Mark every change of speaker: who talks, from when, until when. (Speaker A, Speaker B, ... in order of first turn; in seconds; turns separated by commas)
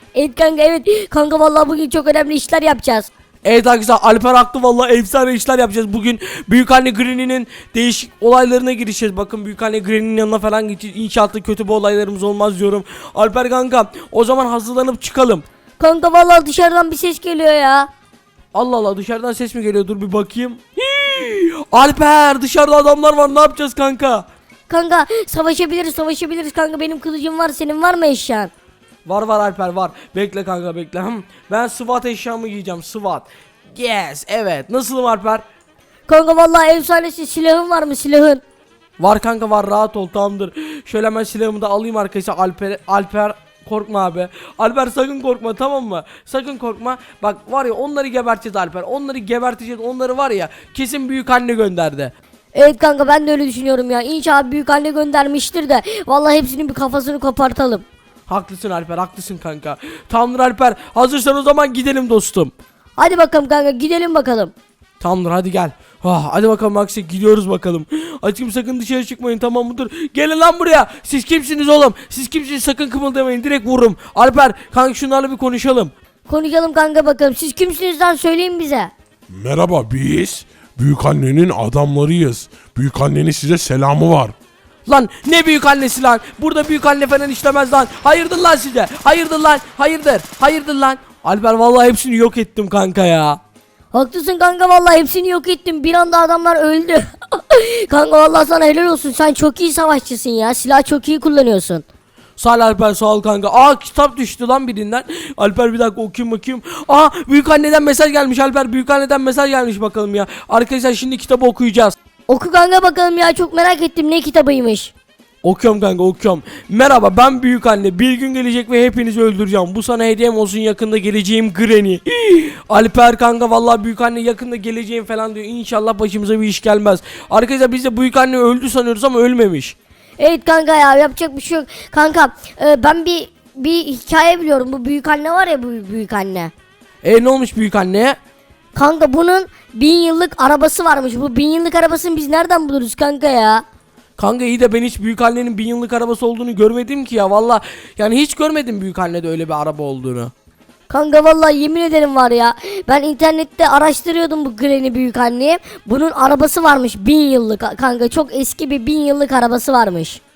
Speaker A: 0.1-3.1, Speaker B: 3.4-15.4, Speaker A: 15.8-17.9, Speaker B: 18.5-24.2, Speaker A: 24.7-28.5, Speaker B: 29.1-35.4, Speaker A: 36.1-38.4, Speaker B: 39.0-52.1, Speaker A: 52.5-57.8, Speaker B: 58.3-62.5, Speaker A: 63.0-64.5, Speaker B: 65.0-75.9, Speaker A: 76.3-78.9, Speaker C: 79.3-84.3, Speaker B: 84.9-93.4, Speaker A: 93.9-101.8, Speaker B: 102.4-111.9, Speaker A: 112.3-114.9, Speaker B: 115.4-129.7, Speaker A: 130.2-136.5, Speaker B: 137.0-138.2, Speaker A: 138.7-143.6, Speaker B: 144.2-150.3, Speaker A: 150.9-160.2